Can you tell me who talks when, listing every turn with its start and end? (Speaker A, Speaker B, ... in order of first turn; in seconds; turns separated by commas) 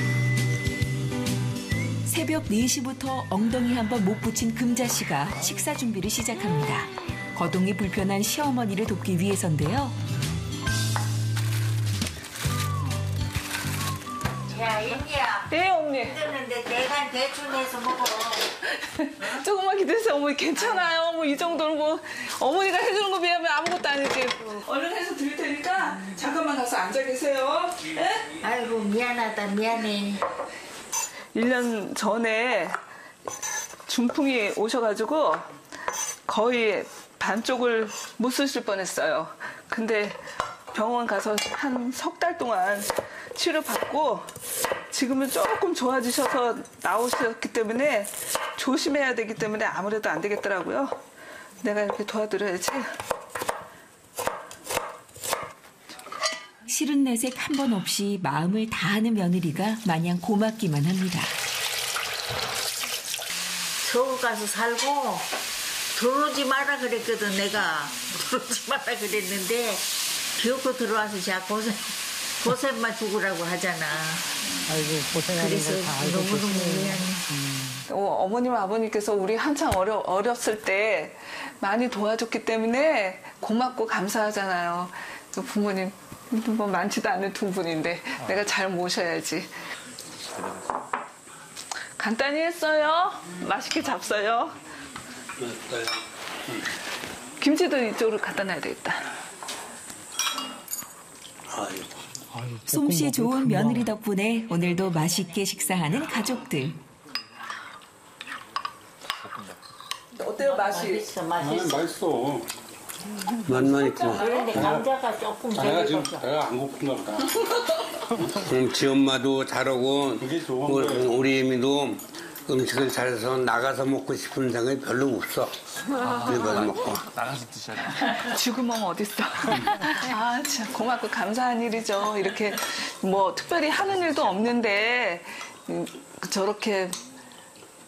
Speaker A: 2.1-10.0, Speaker B: 14.5-18.5, Speaker C: 15.5-16.2, Speaker C: 18.7-28.3, Speaker B: 28.4-30.2, Speaker C: 31.4-32.8, Speaker C: 33.9-35.5, Speaker C: 36.3-40.2, Speaker C: 40.7-44.3, Speaker C: 44.9-51.0, Speaker C: 51.6-52.9, Speaker A: 56.7-61.3, Speaker B: 63.8-65.3, Speaker B: 66.0-74.3, Speaker D: 74.7-77.8, Speaker B: 75.3-77.3, Speaker C: 77.9-89.5, Speaker C: 92.0-94.5, Speaker E: 95.4-96.0, Speaker C: 97.4-99.1, Speaker E: 101.5-102.0, Speaker D: 102.3-103.9, Speaker A: 102.7-106.8, Speaker C: 110.2-111.1, Speaker B: 110.4-111.9, Speaker F: 111.4-112.5, Speaker E: 113.5-114.3, Speaker B: 113.8-116.3, Speaker F: 114.4-114.9, Speaker F: 115.5-117.3, Speaker E: 118.3-125.5, Speaker F: 120.2-121.1, Speaker E: 126.1-127.1, Speaker C: 128.0-137.0